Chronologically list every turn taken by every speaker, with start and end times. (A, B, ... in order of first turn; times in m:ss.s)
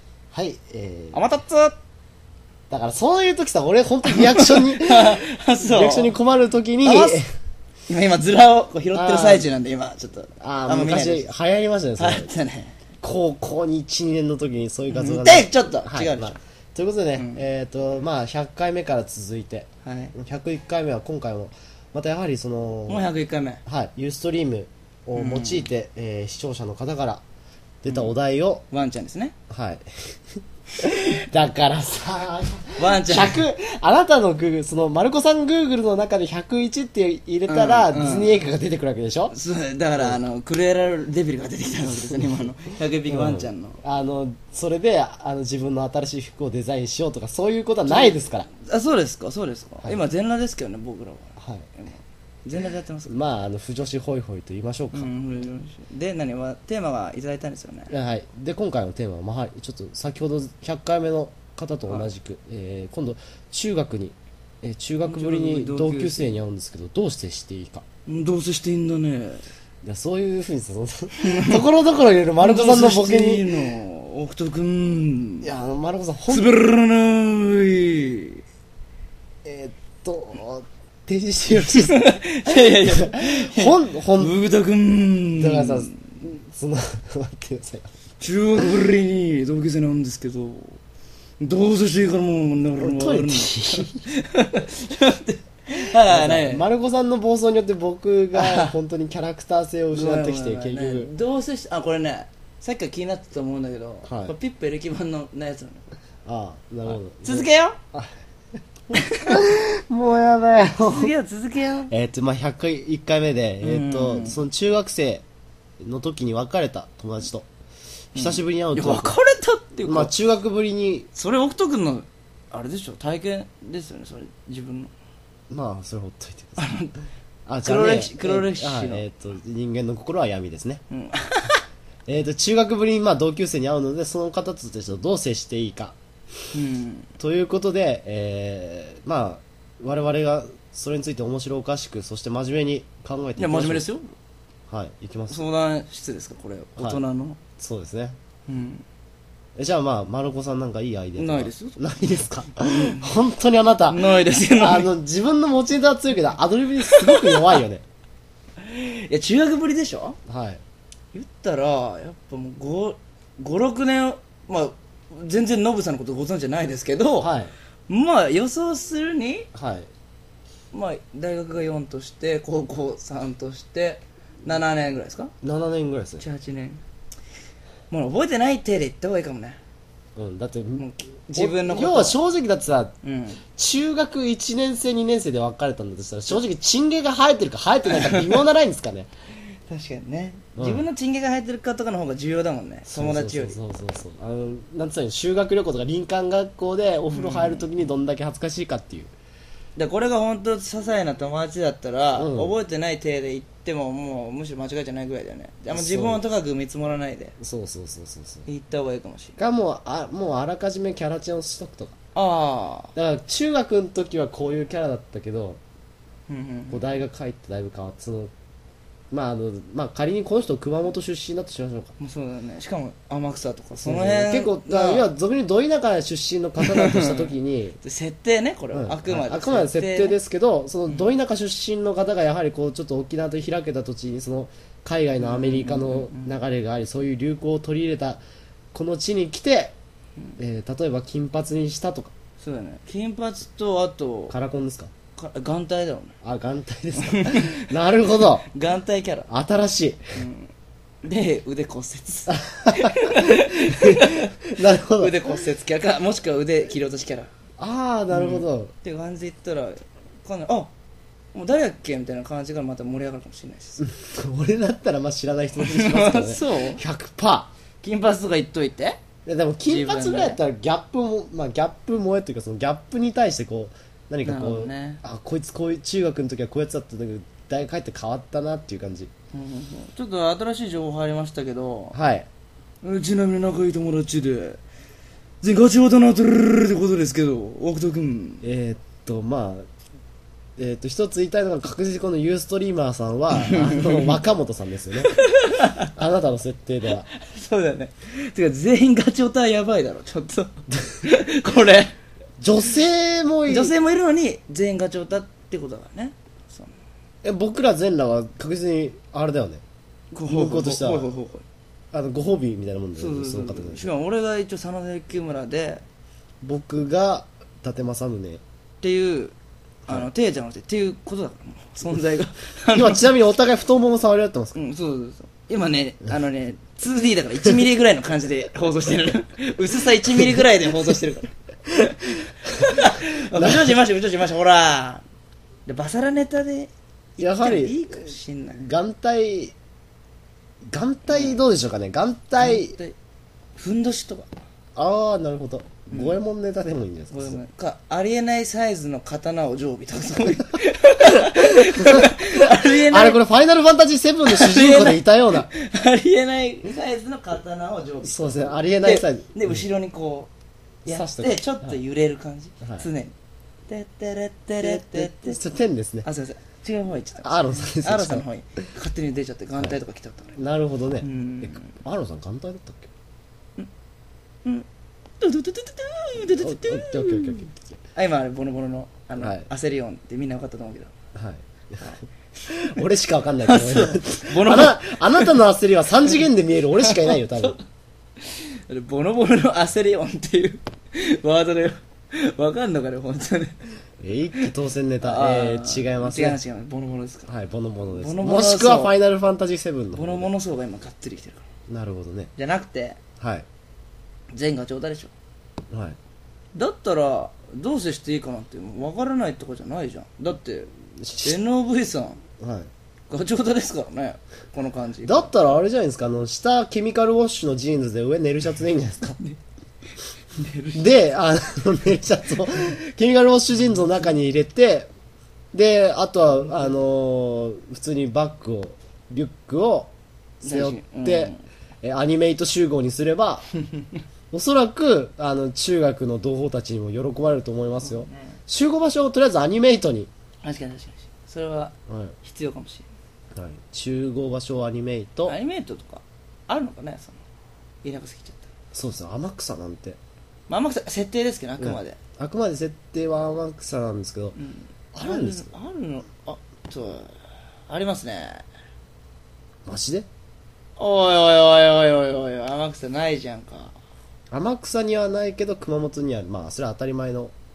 0:00.3-0:01.2 A
0:01.1-0:01.8 B
0:02.7-0:07.2 A
0:04.1-0:06.2 B
0:06.8-0:07.2 B
0:07.9-0:11.3 B
0:08.9-0:09.5 A
0:10.4-0:12.3 A
0:12.0-0:12.8 B
0:13.0-0:23.0 A
0:14.9-0:16.4 B
0:17.2-0:17.5 B
0:19.8-0:20.2 B
0:22.9-0:23.6 B
0:23.7-0:27.2 A
0:25.2-0:25.7 B
0:27.8-0:28.6 A
0:27.9-0:28.1 B
0:28.7-0:29.3 B
0:29.5-0:29.8 A
0:30.8-0:39.4 A
0:32.8-0:33.4 B
0:37.5-0:38.4 B
0:39.3-0:43.8 B
0:43.1-0:48.5 A
0:47.8-0:53.2 B
0:51.4-0:51.7 A
0:53.1-0:55.1 A
0:54.9-0:57.9 B
0:57.9-1:07.8 A
1:05.0-1:06.4 B
1:08.1-1:09.4 B
1:09.8-1:13.6 A
1:11.2-1:11.6 B
1:12.4-1:15.5 B
1:15.4-1:16.5 A
1:16.3-1:18.4 B
1:19.4-1:22.0 A
1:21.5-1:26.0 B
1:22.6-1:24.4 A
1:25.4-1:27.9 A
1:28.2-1:30.8 B
1:31.4-1:36.7 B
1:32.8-1:34.0 A
1:36.0-1:41.1 A
1:38.3-1:38.8 B
1:39.9-1:45.8 B
1:44.0-1:44.3 A
1:46.2-1:48.1 A
1:46.9-1:47.8 B
1:48.9-1:51.1 A
1:49.0-1:49.3 B
1:50.8-1:51.9 B
1:51.9-1:55.2 A
1:53.6-1:54.4 B
1:55.8-1:57.5 A
1:58.2-1:59.2 A
1:58.2-2:00.1 B
1:59.8-2:01.1 A
2:01.1-2:04.9 B
2:05.5-2:06.7 A
2:06.6-2:06.9 B
2:07.5-2:10.8 A
2:07.6-2:09.0 B
2:10.9-2:11.6 B
2:12.1-2:16.0 A
2:16.5-2:17.1 B
2:17.2-2:23.9 A
2:23.4-2:24.1 B
2:24.7-2:25.4 A
2:25.3-2:27.4 B
2:27.6-2:28.2 A
2:28.5-2:28.8 B
2:29.6-2:37.8 A
2:31.2-2:31.8 B
2:32.6-2:33.2 B
2:33.9-2:34.9 B
2:36.8-2:37.6 B
2:38.6-2:40.2 B
2:40.3-2:40.6 A
2:41.1-2:47.3 B
2:47.2-2:47.5 A
2:47.9-2:49.5 B
2:49.5-2:49.9 A
2:50.7-2:55.3 B
2:55.4-2:56.2 A
2:56.2-2:56.8 B
2:57.9-2:59.6 B
3:00.2-3:02.9 A
3:00.8-3:02.2 B
3:03.0-3:03.4 B
3:03.6-3:09.1 A
3:07.9-3:08.4 B
3:09.7-3:13.6 B
3:10.6-3:10.9 A
3:12.9-3:19.1 A
3:17.1-3:17.7 B
3:19.8-3:27.4 B
3:22.2-3:22.6 A
3:25.7-3:26.2 A
3:27.4-3:28.5 A
3:28.5-3:29.4 B
3:29.4-3:32.0 A
3:32.2-3:32.9 B
3:33.0-3:35.6 A
3:36.3-3:36.8 B
3:36.7-3:38.3 A
3:39.1-3:41.9 A
3:42.0-3:45.1 B
3:43.8-3:47.8 A
3:46.6-3:50.2 B
3:48.7-3:58.2 A
3:55.2-3:56.4 B
3:58.7-3:59.8 A
4:00.4-4:02.1 A
4:02.4-4:04.4 B
4:04.3-4:04.9 A
4:05.2-4:06.2 B
4:06.2-4:08.5 A
4:07.0-4:07.7 B
4:08.4-4:09.3 B
4:09.3-4:10.0 A
4:10.2-4:10.5 B
4:11.0-4:17.3 B
4:12.3-4:15.2 A
4:17.6-4:18.7 A
4:18.1-4:20.7 B
4:21.3-4:23.8 B
4:23.8-4:27.5 A
4:25.6-4:26.8 B
4:27.8-4:29.0 B
4:29.3-4:39.1 A
4:29.6-4:30.4 B
4:34.2-4:35.0 B
4:39.3-4:42.0 B
4:41.9-4:42.3 A
4:42.8-4:44.6 B
4:45.4-4:48.5 B
4:48.4-4:49.7 A
4:50.6-4:55.1 A
4:53.4-4:54.2 B
4:55.0-4:55.9 B
4:56.0-4:57.1 A
4:56.9-5:02.0 B
5:02.4-5:03.8 A
5:03.5-5:06.7 B
5:07.2-5:09.6 A
5:10.1-5:11.4 B
5:10.3-5:11.1 A
5:11.9-5:13.9 A
5:13.0-5:15.8 B
5:16.4-5:18.4 A
5:18.8-5:19.3 B
5:19.9-5:23.0 B
5:22.7-5:24.6 A
5:24.6-5:35.0 B
5:33.3-5:33.8 A
5:35.7-5:38.6 B
5:37.2-5:39.5 A
5:40.7-5:42.8 A
5:41.1-5:41.4 B
5:42.4-5:43.0 B
5:43.6-5:44.3 B
5:44.8-5:47.4 A
5:45.9-5:46.2 B
5:47.1-5:53.2 B
5:51.0-5:55.5 A
5:54.3-6:00.3 B
5:58.0-5:59.7 A
6:00.8-6:03.1 B
6:00.9-6:01.8 A
6:02.6-6:02.9 A
6:03.7-6:05.4 B
6:04.6-6:06.1 A
6:06.0-6:10.4 B
6:07.2-6:08.2 A
6:10.4-6:12.9 A
6:11.0-6:11.8 B
6:15.2-6:20.9 B
6:16.2-6:17.7 A
6:19.2-6:19.5 A
6:21.2-6:21.9 A
6:21.8-6:22.6 B
6:22.5-6:27.6 A
6:23.4-6:25.4 B
6:26.9-6:27.6 B
6:28.3-6:33.6 B
6:34.0-6:36.4 A
6:35.0-6:37.3 B
6:37.3-6:40.3 A
6:37.9-6:39.0 B
6:39.9-6:41.4 B
6:41.7-6:42.3 A
6:42.4-6:43.0 B
6:43.2-6:43.5 A
6:44.3-6:45.1 B
6:45.7-6:46.0 A
6:46.6-6:50.7 B
6:51.0-6:51.4 A
6:51.2-6:52.2 B
6:52.4-6:52.7 A
6:53.1-6:55.6 B
6:55.0-6:59.2 A
7:00.3-7:01.0 B
7:00.8-7:04.9 A
7:05.5-7:09.9 A
7:06.4-7:06.8 B
7:10.4-7:13.5 A
7:10.4-7:11.4 B
7:13.6-7:14.0 B
7:14.3-7:20.1 A
7:17.8-7:18.4 B
7:20.4-7:22.8 B
7:21.9-7:22.2 A
7:23.4-7:25.4 A
7:25.3-7:27.2 B
7:27.8-7:28.5 B
7:28.7-7:30.0 A
7:30.5-7:32.0 B
7:31.6-7:34.4 A
7:34.4-7:37.2 B
7:34.9-7:35.6 A
7:37.7-7:38.4 B
7:39.7-7:40.1 A
7:40.8-7:43.8 B
7:44.3-7:47.3 A